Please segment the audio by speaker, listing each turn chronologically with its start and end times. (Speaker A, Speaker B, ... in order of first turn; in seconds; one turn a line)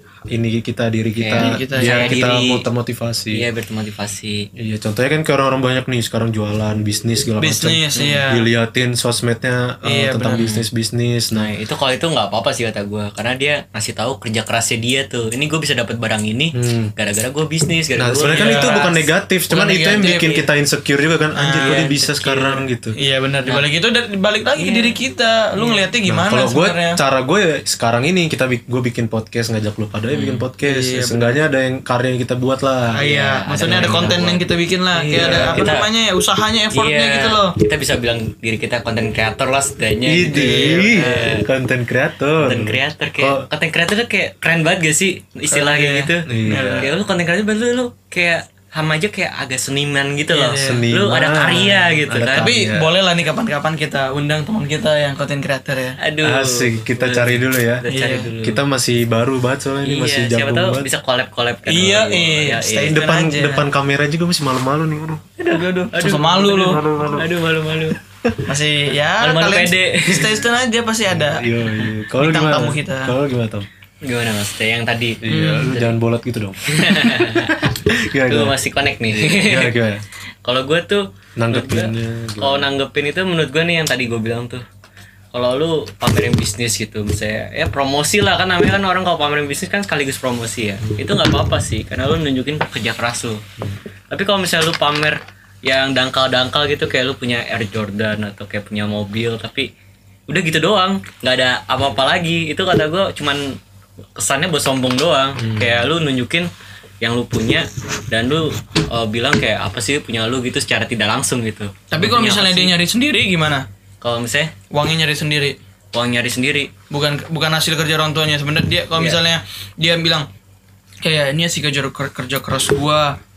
Speaker A: 0.3-3.5
Speaker B: 1.2-2.6
Speaker C: 1.4-2.2
Speaker B: 3.3-4.5
Speaker A: 4.6-11.5
Speaker C: 7.4-8.5
Speaker B: 8.0-8.2
Speaker C: 9.9-10.5
Speaker B: 10.3-10.7
Speaker B: 11.3-18.7
Speaker A: 16.5-16.9
Speaker A: 18.0-22.9
Speaker C: 18.2-20.5
Speaker C: 21.4-27.0
Speaker B: 21.6-22.4
Speaker B: 24.6-25.0
Speaker B: 25.6-25.9
Speaker A: 26.1-33.0
Speaker B: 30.1-30.5
Speaker C: 30.6-31.4
Speaker C: 32.9-37.5
Speaker B: 33.0-34.4
Speaker A: 33.6-34.3
Speaker A: 35.0-35.8
Speaker B: 35.1-35.9
Speaker B: 36.7-41.4
Speaker A: 40.1-43.5
Speaker C: 40.3-41.1
Speaker B: 42.4-52.5
Speaker C: 45.5-46.9
Speaker A: 46.3-46.9
Speaker C: 50.3-50.9
Speaker A: 50.6-52.9
Speaker C: 52.4-56.0
Speaker B: 56.0-58.6
Speaker A: 56.2-57.8
Speaker C: 57.9-58.3
Speaker A: 58.4-60.9
Speaker B: 59.9-63.0
Speaker C: 61.7-63.7
Speaker A: 62.9-65.2
Speaker B: 65.4-68.0
Speaker C: 65.5-66.8
Speaker A: 66.5-67.3
Speaker C: 68.5-71.5
Speaker B: 69.2-70.4
Speaker A: 71.1-73.7
Speaker C: 72.2-73.1
Speaker B: 74.0-76.0
Speaker A: 75.2-78.5
Speaker B: 76.7-77.5
Speaker B: 78.3-79.7
Speaker A: 79.2-80.0
Speaker B: 80.4-84.6
Speaker A: 81.4-82.7
Speaker B: 85.3-93.4
Speaker B: 94.1-99.7
Speaker B: 100.3-103.6
Speaker B: 104.2-106.5
Speaker A: 105.4-105.8
Speaker B: 107.0-112.7
Speaker C: 111.9-113.7
Speaker B: 114.0-114.5
Speaker C: 114.7-115.5
Speaker B: 115.9-116.7
Speaker C: 116.9-120.3
Speaker C: 121.0-123.2